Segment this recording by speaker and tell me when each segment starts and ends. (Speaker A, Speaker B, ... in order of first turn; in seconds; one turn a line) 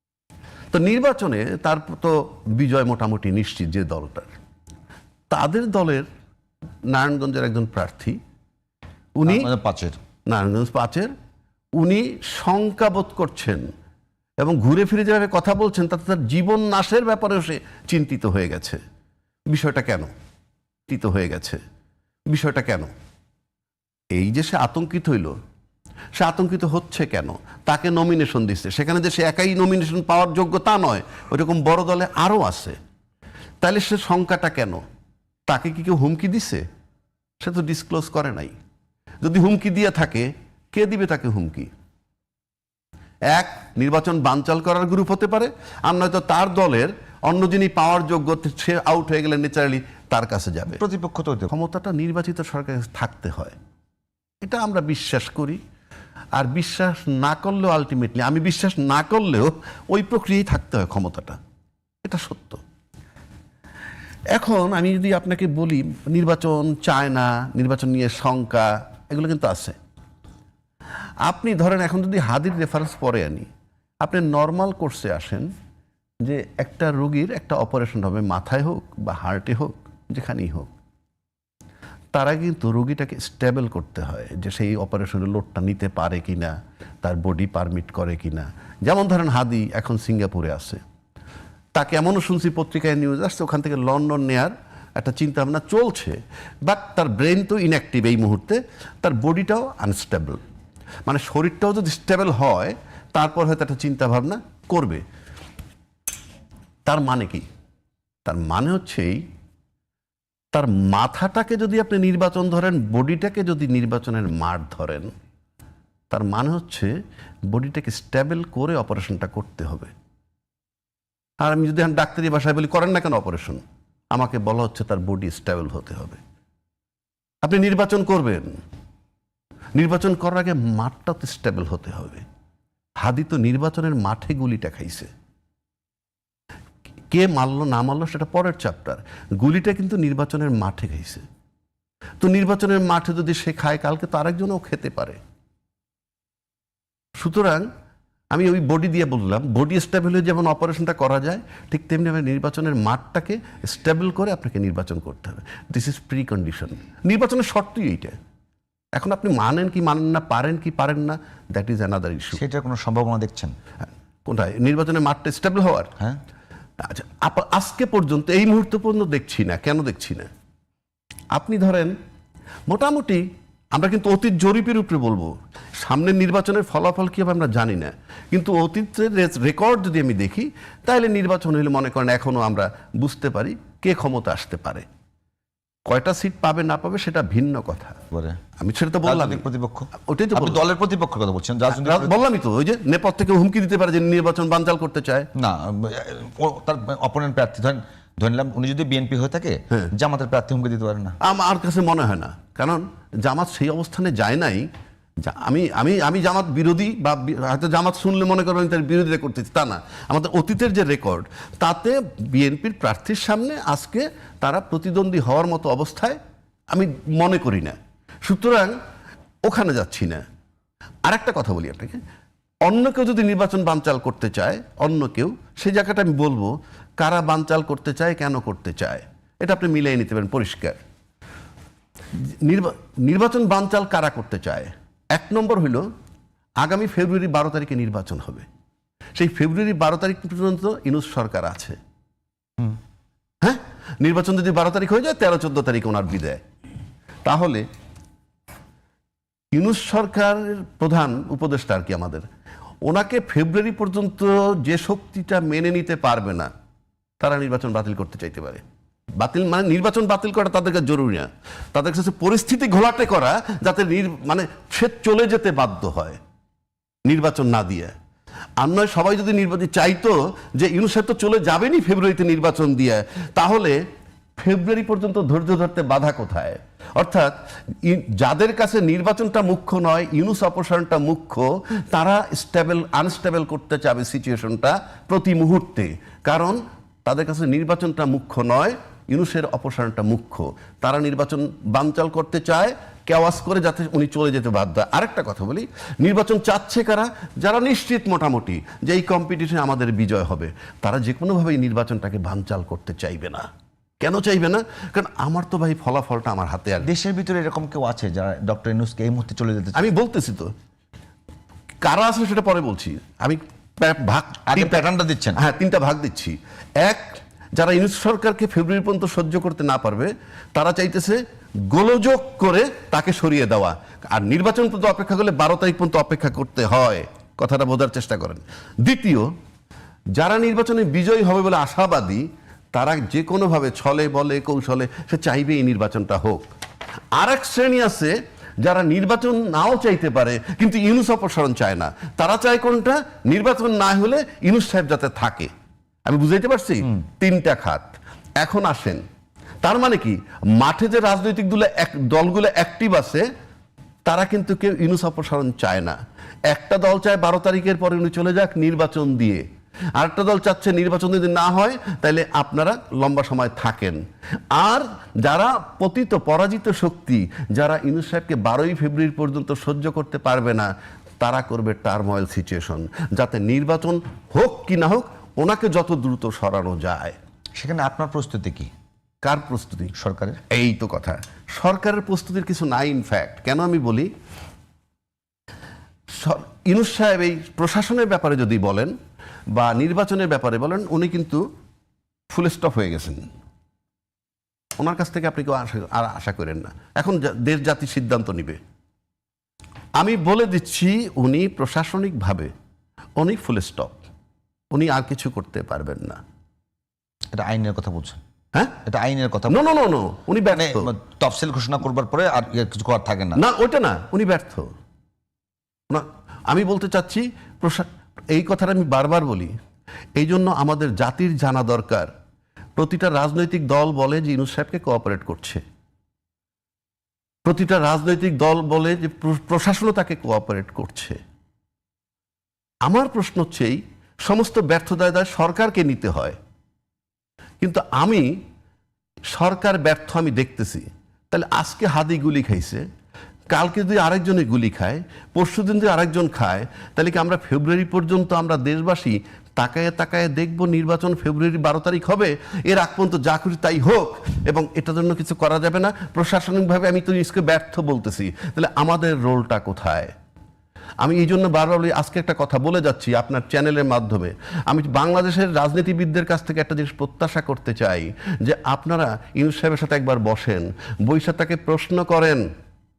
Speaker A: 0.7-4.3
Speaker A: 5.3-6.1
Speaker A: 6.9-8.2
Speaker A: 9.2-9.5
Speaker B: 9.2-10.0
Speaker A: 10.3-11.1
Speaker A: 11.8-13.7
Speaker A: 14.4-18.8
Speaker A: 19.5-20.1
Speaker A: 20.9-21.6
Speaker A: 22.3-22.9
Speaker A: 24.1-25.4
Speaker A: 26.2-32.8
Speaker A: 33.6-34.8
Speaker A: 35.5-36.6
Speaker A: 37.4-38.5
Speaker A: 39.2-41.7
Speaker A: 43.3-50.8
Speaker B: 50.8-51.5
Speaker A: 51.5-53.5
Speaker A: 54.4-55.6
Speaker A: 56.3-61.4
Speaker A: 62.0-62.6
Speaker A: 64.3-69.8
Speaker A: 71.2-73.5
Speaker A: 74.0-75.5
Speaker A: 76.2-80.7
Speaker A: 82.1-90.8
Speaker A: 91.7-100.4
Speaker A: 101.0-105.0
Speaker A: 106.8-107.5
Speaker A: 108.2-109.2
Speaker A: 110.5-115.1
Speaker A: 116.1-116.9
Speaker A: 117.5-119.9
Speaker A: 121.4-123.6
Speaker A: 124.1-126.2
Speaker A: 127.4-128.6
Speaker A: 129.7-132.2
Speaker A: 133.0-135.1
Speaker A: 137.1-141.2
Speaker A: 142.2-145.2
Speaker A: 147.2-147.7
Speaker A: 148.3-158.2
Speaker A: 158.9-162.4
Speaker B: 162.3-163.5
Speaker A: 164.2-165.9
Speaker A: 166.8-170.3
Speaker A: 171.3-171.9
Speaker A: 172.7-184.8
Speaker A: 185.8-188.0
Speaker B: 188.1-188.4
Speaker A: 188.6-190.6
Speaker B: 189.0-192.1
Speaker A: 191.7-195.3
Speaker B: 195.3-201.2
Speaker A: 201.2-204.7
Speaker A: 205.2-216.2
Speaker A: 216.7-218.7
Speaker A: 219.4-220.2
Speaker A: 221.0-222.0
Speaker A: 222.6-230.8
Speaker A: 232.4-235.9
Speaker A: 236.6-238.4
Speaker A: 239.2-241.8
Speaker A: 243.4-246.4
Speaker A: 247.2-247.7
Speaker A: 249.5-252.2
Speaker A: 252.8-256.5
Speaker A: 257.2-258.6
Speaker A: 259.2-266.2
Speaker A: 267.1-267.9
Speaker A: 268.6-273.8
Speaker A: 274.4-303.5
Speaker A: 304.0-306.9
Speaker B: 306.8-309.9
Speaker A: 309.7-310.5
Speaker A: 311.8-314.8
Speaker B: 314.4-315.4
Speaker A: 315.4-329.3
Speaker A: 330.1-336.4
Speaker A: 337.1-345.5
Speaker A: 346.0-349.0
Speaker A: 349.6-353.3
Speaker A: 354.1-359.4
Speaker A: 359.9-377.1
Speaker B: 377.6-378.7
Speaker A: 379.2-379.9
Speaker B: 379.9-380.4
Speaker A: 380.5-384.1
Speaker A: 386.1-388.9
Speaker A: 389.5-391.4
Speaker A: 392.3-393.3
Speaker A: 394.8-398.6
Speaker A: 400.0-402.5
Speaker A: 403.2-404.0
Speaker A: 404.7-406.2
Speaker B: 407.3-408.2
Speaker B: 408.8-409.6
Speaker A: 409.5-410.9
Speaker B: 410.5-413.4
Speaker A: 413.4-414.7
Speaker A: 415.9-419.5
Speaker A: 420.1-422.1
Speaker A: 422.8-425.6
Speaker A: 427.4-431.2
Speaker A: 432.9-436.4
Speaker A: 437.6-438.3
Speaker A: 439.3-442.8
Speaker A: 443.5-460.1
Speaker A: 461.0-472.4